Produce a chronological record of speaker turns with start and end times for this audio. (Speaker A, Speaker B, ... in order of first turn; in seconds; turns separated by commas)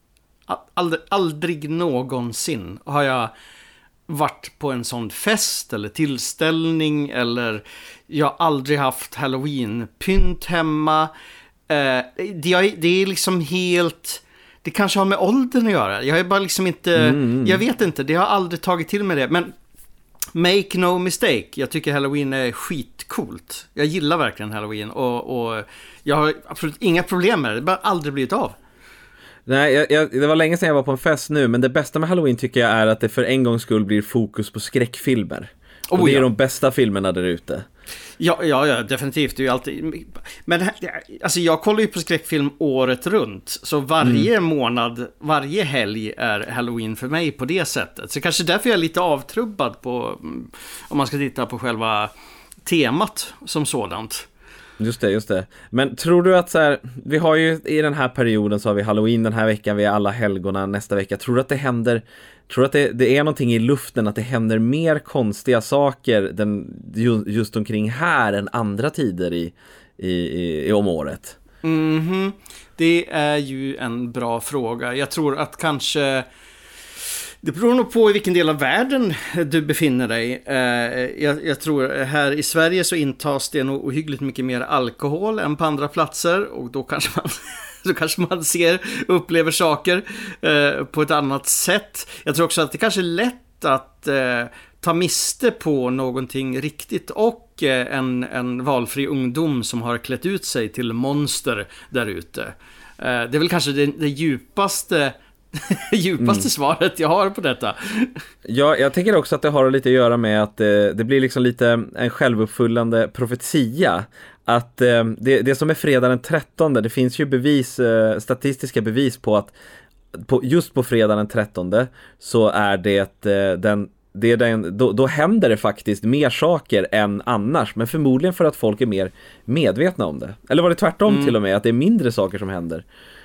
Speaker A: 0.5-3.3, Speaker A: 4.1-11.1, Speaker A: 11.7-19.5, Speaker B: 17.0-17.6, Speaker A: 20.3-28.6, Speaker B: 29.5-37.6, Speaker A: 35.9-36.3, Speaker A: 38.2-52.1, Speaker B: 44.0-44.3, Speaker A: 52.6-54.3, Speaker B: 54.8-71.4, Speaker A: 71.6-76.2, Speaker A: 77.4-108.1, Speaker B: 108.4-119.5, Speaker B: 120.1-132.8, Speaker A: 131.1-131.3